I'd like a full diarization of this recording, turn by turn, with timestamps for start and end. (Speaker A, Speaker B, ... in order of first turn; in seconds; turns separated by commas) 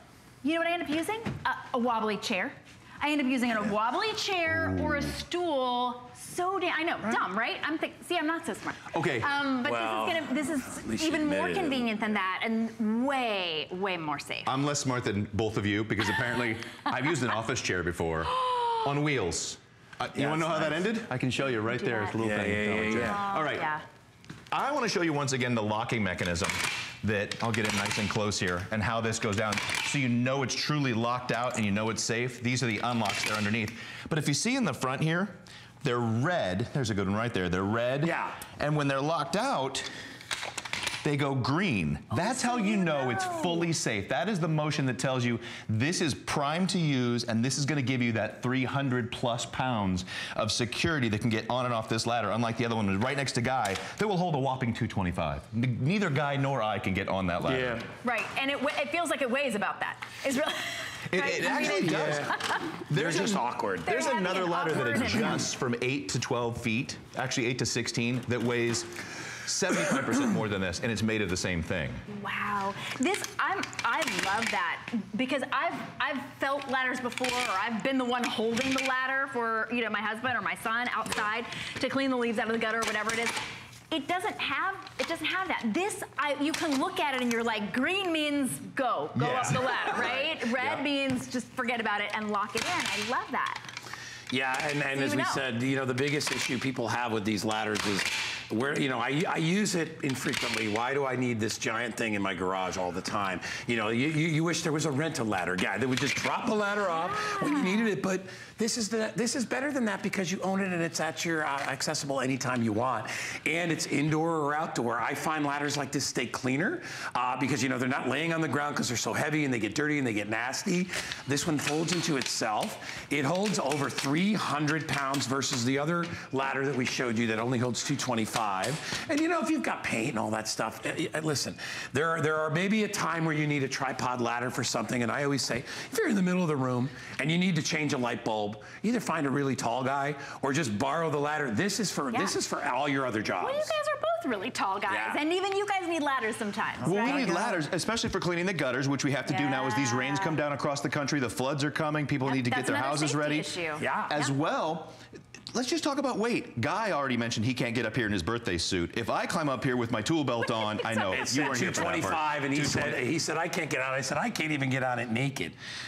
Speaker A: 0.4-14.6, Speaker B: 8.9-9.3, Speaker C: 9.6-11.9, Speaker B: 14.5-23.7, Speaker A: 18.4-18.9, Speaker C: 20.1-20.9, Speaker A: 21.5-22.2, Speaker C: 22.2-23.2, Speaker A: 22.8-23.8, Speaker B: 24.5-39.9, Speaker C: 38.0-38.4, Speaker B: 41.0-57.8, Speaker A: 42.1-43.7, Speaker C: 57.5-57.9, Speaker A: 58.0-62.6, Speaker B: 61.1-62.4, Speaker C: 61.4-64.1, Speaker B: 62.9-68.9, Speaker A: 63.9-65.5, Speaker C: 64.8-65.3, Speaker B: 69.5-72.0, Speaker A: 72.1-83.4, Speaker A: 83.9-93.6, Speaker B: 89.2-90.1, Speaker C: 89.9-90.8, Speaker C: 94.3-143.8, Speaker A: 95.0-95.4, Speaker A: 106.9-107.9, Speaker A: 143.4-147.7, Speaker C: 144.9-145.2, Speaker C: 146.8-147.5, Speaker B: 146.8-153.6, Speaker A: 149.2-150.4, Speaker A: 152.2-154.3, Speaker C: 153.8-154.2, Speaker B: 154.1-155.0, Speaker B: 155.5-163.0, Speaker A: 160.4-161.9, Speaker C: 161.1-165.6